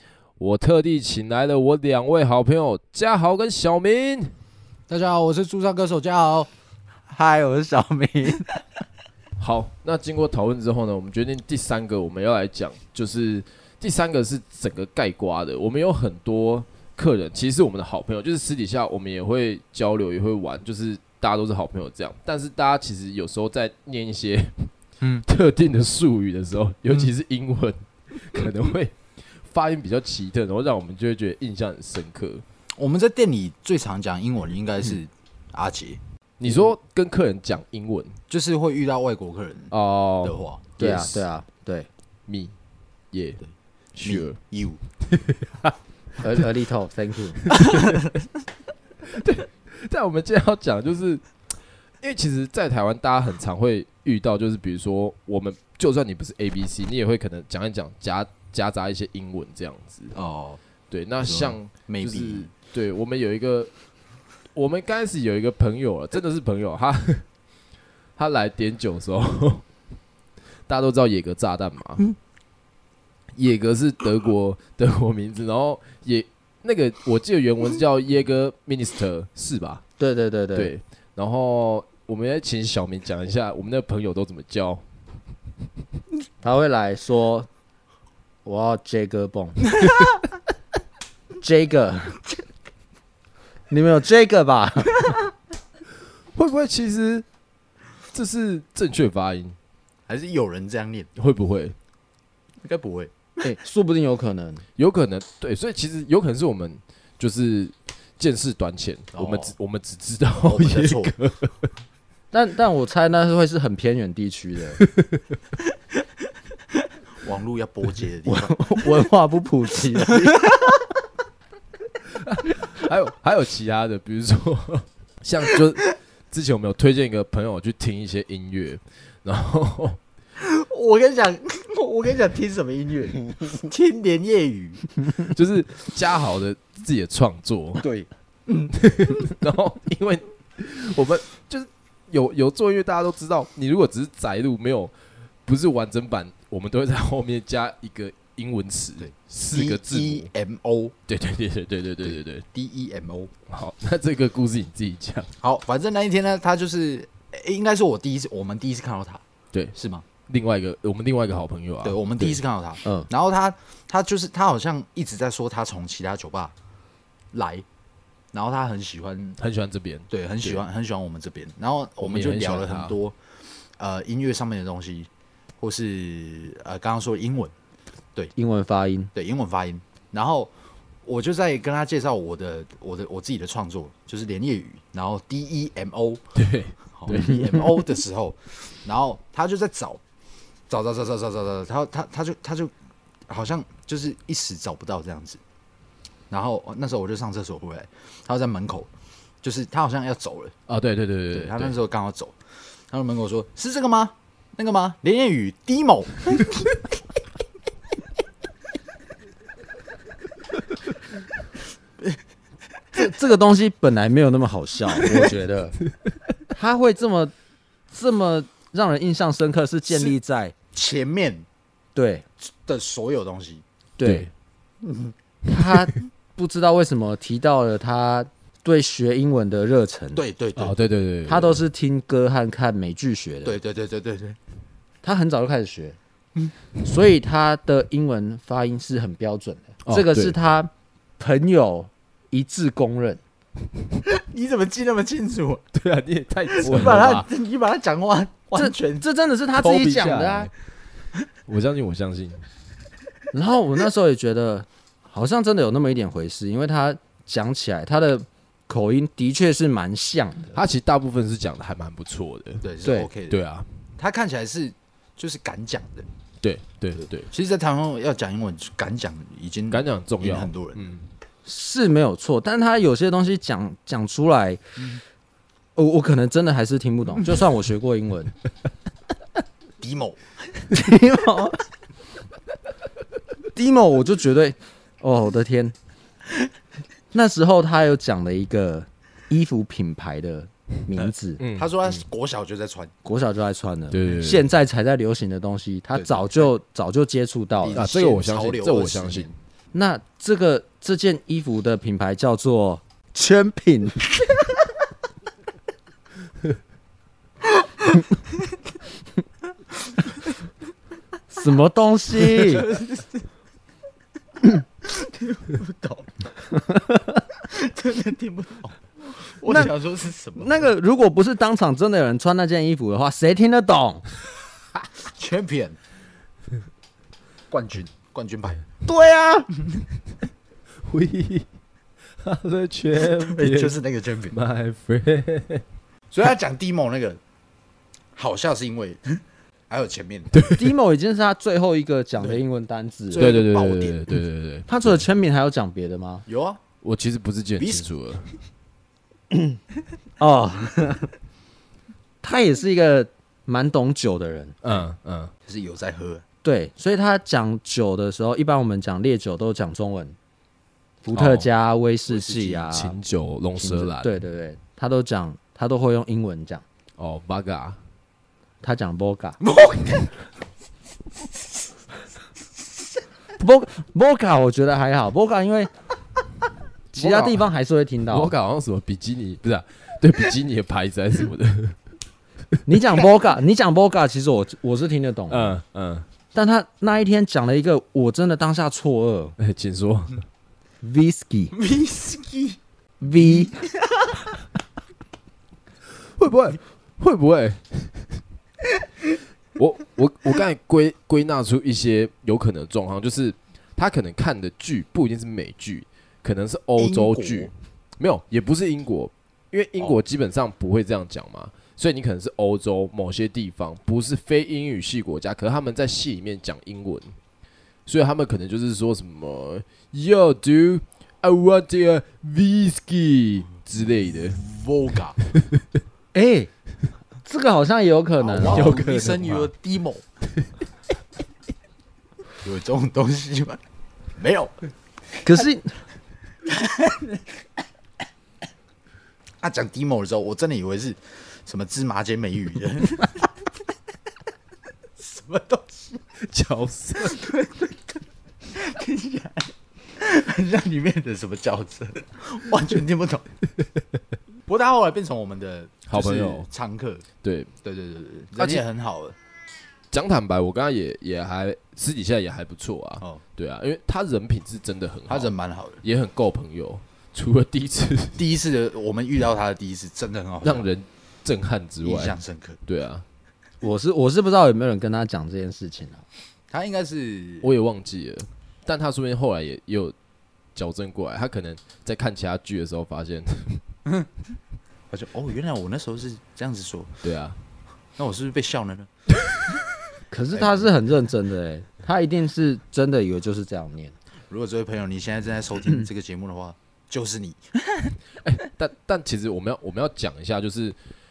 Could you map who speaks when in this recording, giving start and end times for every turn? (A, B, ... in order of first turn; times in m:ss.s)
0:00.4-0:04.3 A
0:04.9-0:06.5 B
0:07.1-0:08.4 C
0:09.4-0:24.7 A
0:25.2-0:32.4 A
0:32.8-0:36.0 B
0:36.4-0:38.2 A
0:38.3-0:40.7 B
0:39.7-0:41.3 A
0:40.8-0:41.9 C
0:42.3-0:42.5 A
0:43.1-0:43.4 A
0:43.9-0:44.4 A
0:44.0-0:44.8 B
0:45.1-0:45.7 A
0:46.2-0:47.4 C
0:47.6-0:48.0 B
0:49.1-0:51.2 A
0:52.0-1:00.1 A
1:00.1-1:00.6 B
1:00.9-1:03.7 A
1:01.2-1:02.5 B
1:04.5-1:07.2 A
1:08.2-1:09.6 A
1:10.7-1:12.0 A
1:13.3-1:19.8 A
1:20.0-1:20.7 C
1:20.6-1:24.8 A
1:26.4-1:27.5 C
1:28.4-1:29.7 C
1:29.8-1:30.1 B
1:31.4-1:32.2 C
1:33.7-1:35.1 C
1:36.3-1:37.2 A
1:38.1-1:39.6 A
1:40.1-1:41.1 B
1:41.2-1:41.8 A
1:42.6-1:43.5 B
1:43.4-1:44.6 C
1:44.8-1:51.6 A
1:49.1-1:49.6 B
1:50.4-1:51.1 B
1:52.3-1:54.8 C
1:54.8-1:55.1 A
1:57.2-1:58.6 B
1:58.2-2:00.8 C
2:02.2-2:05.8 A
2:06.3-2:10.0 A
2:10.4-2:15.0 B
2:15.2-2:17.8 A
2:17.8-2:18.7 B
2:18.7-2:30.3 A
2:29.0-2:30.9 B
2:31.1-2:32.4 A
2:32.0-2:33.3 B
2:33.5-2:35.3 A
2:35.4-2:39.2 B
2:39.5-2:42.4 A
2:39.7-2:40.1 B
2:41.8-2:46.5 B
2:47.3-2:47.6 B
2:48.3-2:49.4 B
2:49.4-2:50.6 A
2:50.1-2:53.2 B
2:52.0-2:52.9 A
2:53.8-2:57.5 B
2:58.3-2:59.1 C
2:59.1-3:00.5 B
3:01.0-3:06.2 B
3:06.4-3:07.4 A
3:07.0-3:10.0 B
3:07.1-3:07.4 C
3:10.7-3:12.7 B
3:13.3-3:15.4 B
3:16.3-3:18.9 B
3:19.4-3:20.5 B
3:20.7-3:21.8 A
3:21.3-3:22.4 B
3:22.9-3:26.8 B
3:32.9-3:35.8 C
3:34.9-3:35.3 B
3:36.5-3:37.3 C
3:37.9-3:40.5 C
3:39.9-3:40.2 B
3:40.7-3:41.4 B
3:41.9-3:42.2 C
3:42.5-3:43.6 B
3:44.0-3:44.3 C
3:44.0-3:44.3 A
3:45.4-3:50.2 C
3:50.1-3:50.8 B
3:50.6-3:51.6 A
3:51.2-3:53.6 C
3:53.4-3:54.4 B
3:55.0-3:56.0 C
3:56.8-4:03.2 C
3:59.8-4:00.4 A
4:04.0-4:05.6 B
4:05.7-4:07.2 A
4:06.5-4:09.0 B
4:06.7-4:07.1 C
4:08.5-4:10.5 C
4:09.6-4:10.5 A
4:11.5-4:12.4 A
4:13.3-4:20.6 C
4:20.5-4:22.6 A
4:22.6-4:23.4 B
4:22.8-4:23.1 C
4:23.3-4:23.7 A
4:24.0-4:26.1 B
4:26.4-4:27.3 A
4:27.0-4:30.8 B
4:29.7-4:31.1 A
4:31.4-4:34.6 C
4:35.7-4:38.3 C
4:39.8-4:40.2 B
4:40.7-4:41.6 C
4:43.5-4:45.7 C
4:47.1-4:51.4 C
4:51.0-4:52.9 B
4:51.4-4:52.0 A
4:53.0-4:57.9 C
4:53.9-4:54.5 A
4:55.9-4:56.5 B
4:57.6-4:59.3 B
4:57.7-4:59.3 A
4:59.7-5:04.1 C
5:11.3-5:12.7 C
5:12.4-5:13.2 B
5:14.8-5:16.2 B
5:16.5-5:17.1 C
5:17.5-5:20.7 B
5:19.4-5:19.7 C
5:20.4-5:24.0 C
5:25.1-5:25.8 B
5:27.5-5:28.6 B
5:28.8-5:29.5 C
5:30.8-5:31.5 A
5:32.2-5:33.7 A
5:33.0-5:34.4 B
5:34.3-5:35.6 A
5:36.1-5:37.2 B
5:38.2-5:39.2 B
5:39.7-5:40.3 B
5:40.3-5:40.7 A
5:40.5-5:43.4 C
5:43.1-5:44.0 B
5:43.2-5:45.0 A
5:44.7-5:46.2 C
5:46.2-5:46.6 B
5:46.8-5:48.3 A
5:47.6-5:47.9 B
5:49.3-5:49.6 C
5:50.2-5:51.1 C
5:52.2-5:54.6 C
5:54.6-5:55.3 A
5:55.4-5:56.2 B
5:56.4-6:00.2 C
6:01.0-6:03.0 C
6:01.1-6:01.5 A
6:02.1-6:02.7 B
6:02.7-6:04.1 A
6:03.6-6:06.6 C
6:07.0-6:07.8 A
6:08.6-6:09.4 C
6:09.4-6:10.1 B
6:13.4-6:15.7 C
6:16.9-6:18.3 C
6:16.9-6:17.5 A
6:18.1-6:21.8 A
6:22.6-6:25.6 C
6:25.3-6:26.0 A
6:26.3-6:29.4 C
6:29.4-6:30.1 A
6:30.8-6:31.5 C
6:31.5-6:32.6 B
6:33.0-6:33.6 C
6:33.6-6:34.1 B
6:36.1-6:38.2 A
6:39.6-6:57.1 A
6:46.8-6:47.5 B
6:57.8-7:04.4 A
7:04.1-7:05.2 B
7:06.1-7:06.5 C
7:07.2-7:08.8 C
7:08.2-7:10.0 B
7:08.5-7:09.5 A
7:12.4-7:13.6 B
7:14.2-7:14.6 B
7:15.2-7:15.7 C
7:16.4-7:17.2 B
7:19.4-7:23.3 B
7:25.0-7:26.0 B
7:26.2-7:27.1 A
7:26.9-7:33.3 B
7:34.4-7:37.0 B
7:35.9-7:36.5 A
7:37.2-7:37.5 A
7:37.6-7:39.2 B
7:38.4-7:38.6 A
7:39.9-7:48.2 A
7:45.1-7:45.8 B
7:48.2-7:50.7 B
7:50.4-7:53.0 A
7:51.8-7:52.6 B
7:53.6-7:56.0 C
7:56.5-7:57.5 B
7:57.4-7:59.9 A
8:00.5-8:03.6 A
8:04.9-8:07.0 B
8:07.0-8:07.4 A
8:08.0-8:08.9 B
8:10.1-8:14.0 C
8:10.3-8:10.7 B
8:14.3-8:17.9 B
8:18.2-8:20.8 A